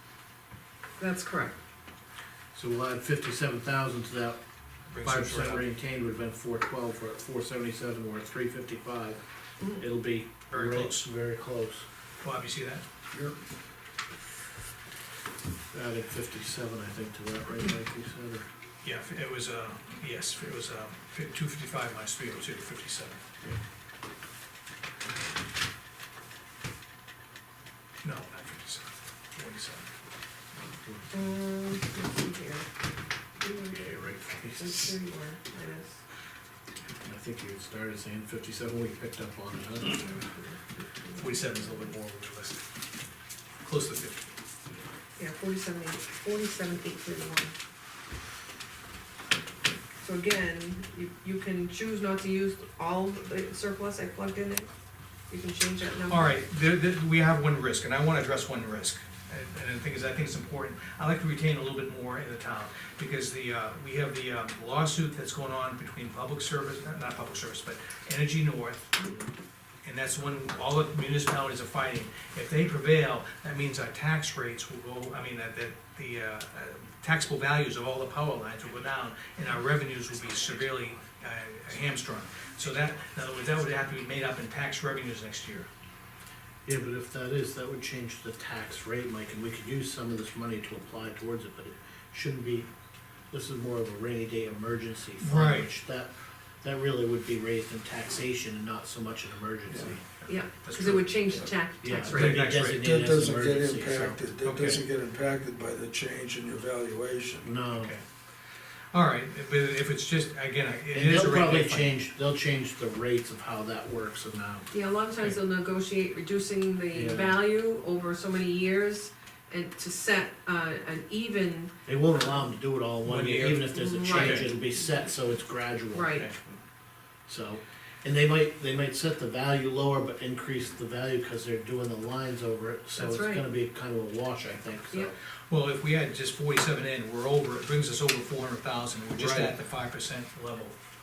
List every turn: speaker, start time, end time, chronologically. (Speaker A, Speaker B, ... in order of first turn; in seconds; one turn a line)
Speaker A: 1.0-1.6
Speaker B: 2.5-4.4
Speaker C: 4.9-5.7
Speaker B: 5.0-9.2
Speaker B: 9.8-11.8
Speaker C: 10.5-11.1
Speaker C: 12.2-12.8
Speaker B: 15.7-18.5
Speaker C: 18.8-23.2
Speaker C: 28.0-29.9
Speaker B: 30.7-31.1
Speaker A: 31.1-32.7
Speaker A: 33.4-33.8
Speaker B: 33.7-35.0
Speaker A: 34.5-36.0
Speaker B: 37.0-40.1
Speaker A: 39.9-41.9
Speaker C: 41.2-42.6
Speaker C: 43.6-44.2
Speaker A: 45.2-47.5
Speaker A: 50.0-54.7
Speaker A: 55.3-56.4
Speaker C: 56.1-69.2
Speaker C: 69.8-85.7
Speaker B: 86.7-92.7
Speaker B: 93.3-100.0
Speaker C: 95.2-95.7
Speaker A: 100.3-102.4
Speaker C: 100.6-101.5
Speaker B: 101.8-104.2
Speaker C: 102.0-102.8
Speaker D: 102.8-107.5
Speaker C: 104.4-104.8
Speaker B: 107.4-108.0
Speaker C: 107.7-108.0
Speaker C: 108.9-112.0
Speaker B: 110.9-114.7
Speaker A: 114.7-121.7
Speaker B: 116.9-117.4
Speaker B: 121.8-126.2
Speaker C: 123.0-124.5
Speaker A: 123.7-124.5
Speaker A: 125.9-126.3
Speaker C: 126.1-126.5
Speaker B: 127.3-135.1
Speaker A: 133.0-133.4
Speaker C: 135.5-140.7
Speaker B: 139.1-139.5